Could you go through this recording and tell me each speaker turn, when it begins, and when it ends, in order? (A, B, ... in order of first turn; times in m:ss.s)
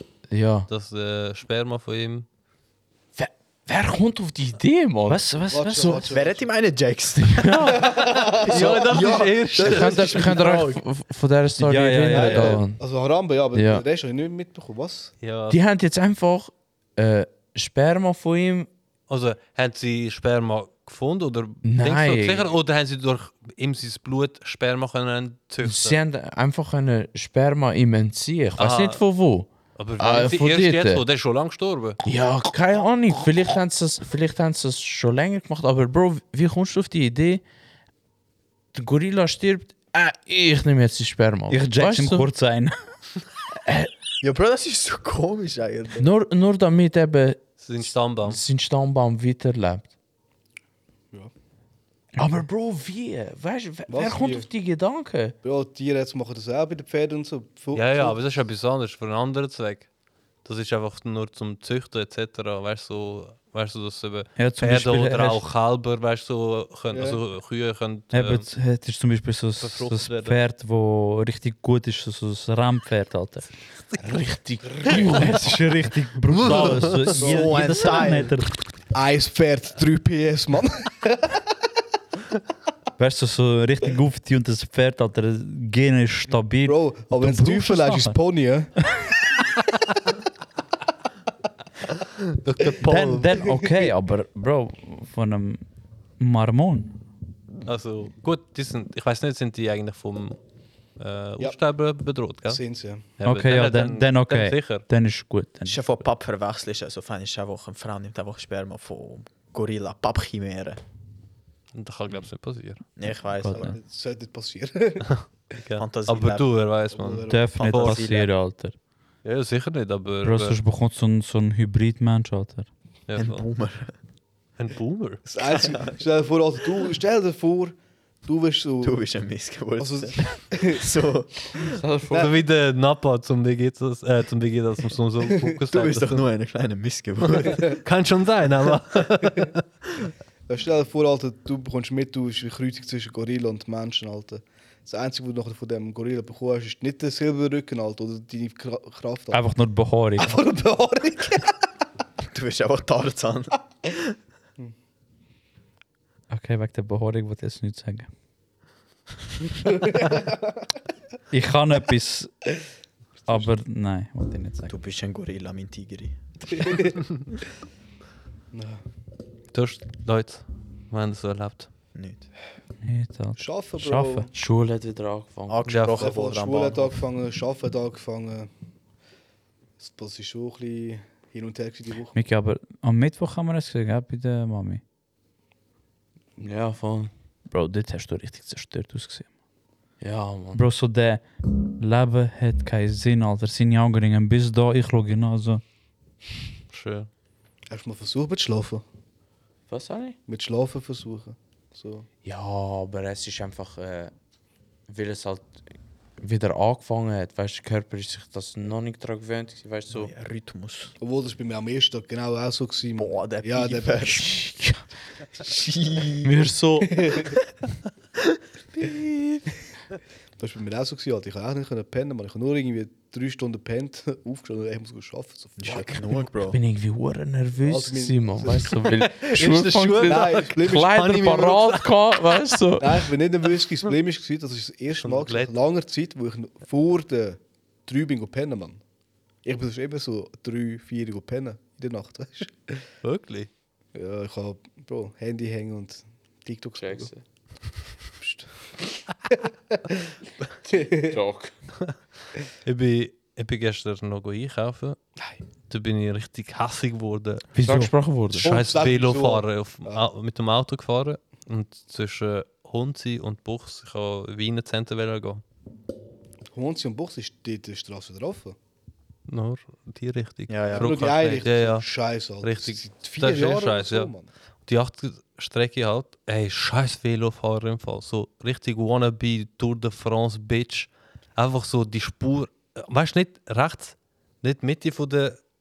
0:00.3-0:00.7 A
0:00.7-0:02.2 B
0:03.2-0:05.2 A
0:05.1-0:06.1 C
0:05.5-0:06.5 D
0:06.1-0:10.8 E
0:07.2-0:08.0 A
0:07.8-0:08.8 D
0:08.3-0:10.4 B
0:08.9-0:12.8 A
0:11.6-0:12.6 C
0:12.1-0:15.1 D
0:13.5-0:13.8 A
0:15.2-0:15.6 B
0:15.5-0:18.7 A
0:19.1-0:26.0 B
0:21.6-0:22.5 A
0:25.6-0:31.0 A
0:28.6-0:29.0 B
0:29.8-0:32.0 B
0:32.0-0:37.4 A
0:38.7-0:42.3 A
0:41.5-0:42.7 C
0:44.2-0:46.0 E
0:46.0-0:47.5 A
0:47.6-0:48.4 B
0:48.2-0:49.9 A
0:52.2-0:55.3 A
0:53.9-0:54.5 D
0:55.4-0:58.2 D
0:57.7-0:59.9 B
1:00.4-1:08.4 B
1:04.4-1:05.5 C
1:06.9-1:07.2 D
1:08.1-1:13.5 C
1:09.6-1:10.4 B
1:14.0-1:15.5 A
1:14.8-1:18.5 C
1:16.2-1:17.2 B
1:17.1-1:18.3 E
1:17.2-1:17.8 D
1:18.9-1:21.4 D
1:23.0-1:28.2 C
1:26.6-1:28.8 D
1:32.0-1:33.4 B
1:32.8-1:35.6 C
1:36.2-1:36.9 C
1:37.6-1:40.4 B
1:41.0-1:42.6 B
1:42.4-1:43.1 D
1:43.2-1:44.8 B
1:43.2-1:46.0 C
1:45.6-1:50.8 E
1:51.7-1:52.8 B
1:53.0-1:53.8 E
1:53.4-1:53.8 C
1:53.5-1:55.1 D
1:55.1-1:58.1 B
1:55.8-1:56.5 E
1:56.9-1:57.5 D
1:57.3-1:58.8 C
1:57.5-1:58.3 E
1:59.2-2:00.6 B
2:00.2-2:02.7 C
2:03.1-2:03.5 B
2:03.2-2:03.9 E
2:04.6-2:05.2 B
2:05.2-2:09.0 D
2:05.4-2:06.0 E
2:08.8-2:11.8 E
2:09.8-2:10.9 D
2:11.7-2:12.4 A
2:12.1-2:16.2 B
2:15.7-2:17.8 E
2:17.4-2:19.6 B
2:20.5-2:29.4 D
2:29.3-2:30.4 C
2:30.2-2:31.5 D
2:32.3-2:34.1 E
2:36.3-2:38.1 C
2:39.7-2:40.4 D
2:41.3-2:42.3 C
2:43.2-2:44.7 C
2:44.7-2:46.8 E
2:46.5-2:47.0 D
2:48.5-2:48.8 D
2:49.5-2:51.7 B
2:51.9-2:52.2 E
2:52.8-2:54.3 C
2:53.4-2:54.3 D
2:54.3-2:55.7 A
2:55.5-2:57.0 E
2:55.7-2:56.1 B
2:55.9-2:58.5 D
2:59.8-3:02.1 D
3:02.1-3:04.8 C
3:06.4-3:07.1 A
3:07.5-3:09.3 C
3:10.0-3:10.6 A
3:10.5-3:11.2 C
3:11.8-3:15.6 C
3:16.7-3:17.1 B
3:17.7-3:18.8 D
3:19.7-3:20.2 A
3:20.3-3:22.1 D
3:22.2-3:24.1 A
3:24.9-3:25.5 A
3:26.2-3:30.1 A
3:29.9-3:30.9 E
3:31.0-3:34.2 D
3:33.0-3:34.3 E
3:34.0-3:34.8 A
3:35.4-3:36.3 E
3:36.2-3:37.3 A
3:36.9-3:37.3 D
3:38.8-3:39.4 A
3:40.4-3:46.0 D
3:45.6-3:46.6 E
3:45.7-3:53.0 A
3:47.6-3:48.8 D
3:49.0-3:52.0 B
3:50.0-3:51.0 D
3:52.8-3:58.8 D
3:55.0-3:55.5 B
3:59.4-4:02.8 D
4:03.0-4:03.5 B
4:03.9-4:07.1 D
4:06.8-4:07.2 A
4:08.2-4:08.5 D
4:09.3-4:10.1 D
4:10.6-4:11.2 D
4:10.7-4:11.5 A
4:12.6-4:15.0 B
4:15.7-4:17.5 B
4:17.5-4:17.9 C
4:17.6-4:18.5 A
4:18.4-4:25.4 B
4:18.4-4:20.1 D
4:26.5-4:28.6 D
4:29.3-4:31.8 B
4:30.5-4:31.4 E
4:30.7-4:34.3 D
4:32.4-4:34.1 B
4:34.6-4:45.4 B